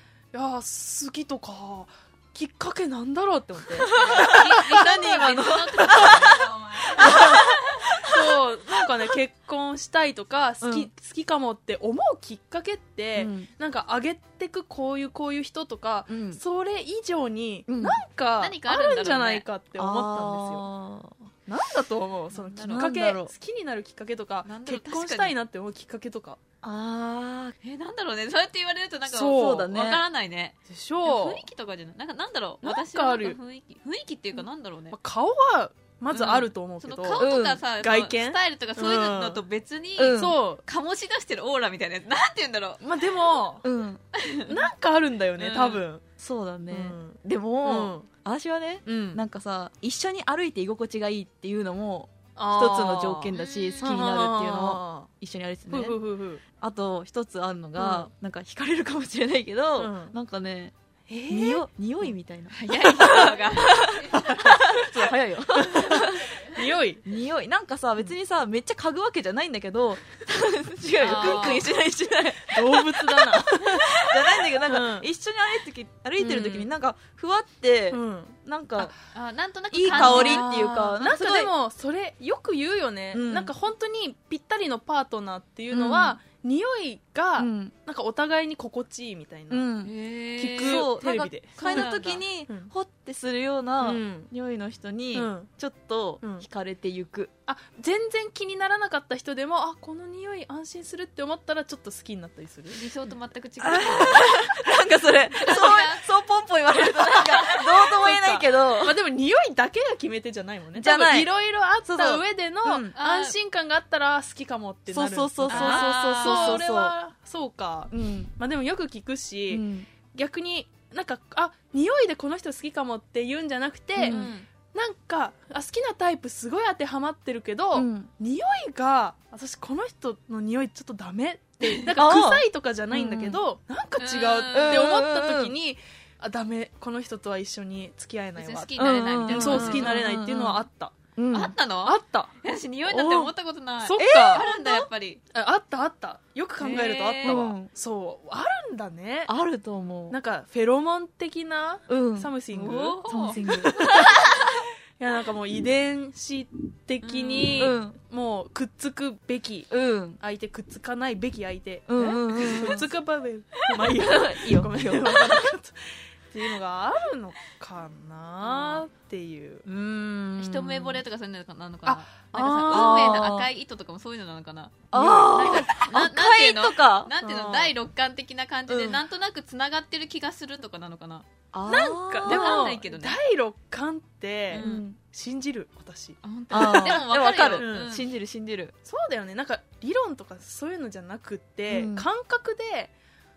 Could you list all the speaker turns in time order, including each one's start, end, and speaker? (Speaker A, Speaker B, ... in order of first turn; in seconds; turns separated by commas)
Speaker A: 0.3-4.8, Speaker B: 3.8-7.5, Speaker C: 3.8-7.4, Speaker A: 5.8-20.6, Speaker B: 10.6-10.9, Speaker B: 13.2-13.5, Speaker B: 16.1-16.4, Speaker B: 17.7-18.0, Speaker C: 18.4-19.5, Speaker B: 19.8-21.3, Speaker A: 21.5-26.4, Speaker C: 22.3-22.9, Speaker B: 22.6-23.3, Speaker C: 24.4-25.3, Speaker B: 26.6-27.5, Speaker C: 27.6-35.0, Speaker A: 29.1-29.7, Speaker B: 29.3-30.0, Speaker A: 30.7-31.4, Speaker A: 32.6-33.4, Speaker A: 34.9-37.2, Speaker C: 36.1-42.8, Speaker B: 37.2-37.6, Speaker A: 37.8-39.4, Speaker B: 40.0-40.4, Speaker A: 40.2-40.6, Speaker A: 42.8-43.6, Speaker B: 43.6-44.0, Speaker C: 44.2-44.5, Speaker A: 44.5-46.0, Speaker C: 45.4-45.8, Speaker B: 46.2-55.9, Speaker A: 46.7-48.1, Speaker A: 48.8-49.2, Speaker A: 52.4-55.1, Speaker C: 53.3-54.0, Speaker A: 55.7-56.4, Speaker B: 56.6-60.7, Speaker A: 57.8-58.1, Speaker A: 59.8-60.1, Speaker A: 61.1-62.1, Speaker B: 61.3-66.3, Speaker C: 62.5-63.9, Speaker A: 64.1-67.0, Speaker B: 67.0-78.9, Speaker C: 71.0-71.7, Speaker A: 71.0-71.6, Speaker A: 72.5-75.1, Speaker A: 76.2-76.7, Speaker A: 77.9-78.9, Speaker C: 79.1-80.5, Speaker B: 79.7-81.5, Speaker A: 79.9-89.7, Speaker B: 83.1-83.5, Speaker B: 85.7-86.2, Speaker B: 87.4-87.7, Speaker B: 89.5-89.9, Speaker C: 89.8-90.9, Speaker A: 90.4-92.7, Speaker B: 90.5-97.3, Speaker C: 91.6-92.2, Speaker A: 93.8-94.3, Speaker A: 95.1-95.5, Speaker A: 96.2-96.5, Speaker A: 97.5-102.8, Speaker C: 102.7-104.4, Speaker B: 103.6-109.0, Speaker C: 105.3-106.1, Speaker A: 107.0-141.0, Speaker B: 110.7-111.3, Speaker B: 111.8-112.9, Speaker C: 112.9-113.4, Speaker B: 114.9-117.0, Speaker C: 115.5-116.6, Speaker B: 117.9-118.3, Speaker B: 119.5-119.9, Speaker B: 124.0-124.3, Speaker C: 124.0-124.5, Speaker B: 127.8-128.1, Speaker B: 131.8-133.4, Speaker C: 134.0-134.9, Speaker B: 134.5-135.5, Speaker C: 138.4-140.0, Speaker B: 138.8-140.7, Speaker B: 141.2-141.6, Speaker C: 141.3-145.2, Speaker A: 141.9-142.3, Speaker B: 142.9-143.3, Speaker A: 143.8-144.4, Speaker B: 143.9-144.9, Speaker A: 145.3-149.3, Speaker C: 146.6-147.4, Speaker B: 147.2-147.7, Speaker B: 149.3-150.2, Speaker A: 150.1-154.5, Speaker B: 151.9-152.3, Speaker C: 152.5-154.0, Speaker B: 153.1-154.0, Speaker A: 155.0-169.6, Speaker C: 157.0-157.8, Speaker B: 157.6-157.9, Speaker B: 159.7-160.2, Speaker B: 161.9-162.9, Speaker B: 163.7-165.5, Speaker B: 169.7-171.0, Speaker C: 170.4-181.2, Speaker A: 171.9-173.3, Speaker B: 172.7-173.5, Speaker A: 174.9-175.7, Speaker B: 174.9-177.1, Speaker A: 177.2-177.7, Speaker B: 178.7-179.0, Speaker B: 181.5-182.7, Speaker A: 181.7-188.0, Speaker C: 182.2-183.2, Speaker B: 184.5-185.0, Speaker C: 184.5-184.8, Speaker C: 186.2-188.1, Speaker B: 186.5-188.7, Speaker A: 188.8-192.9, Speaker B: 191.7-192.1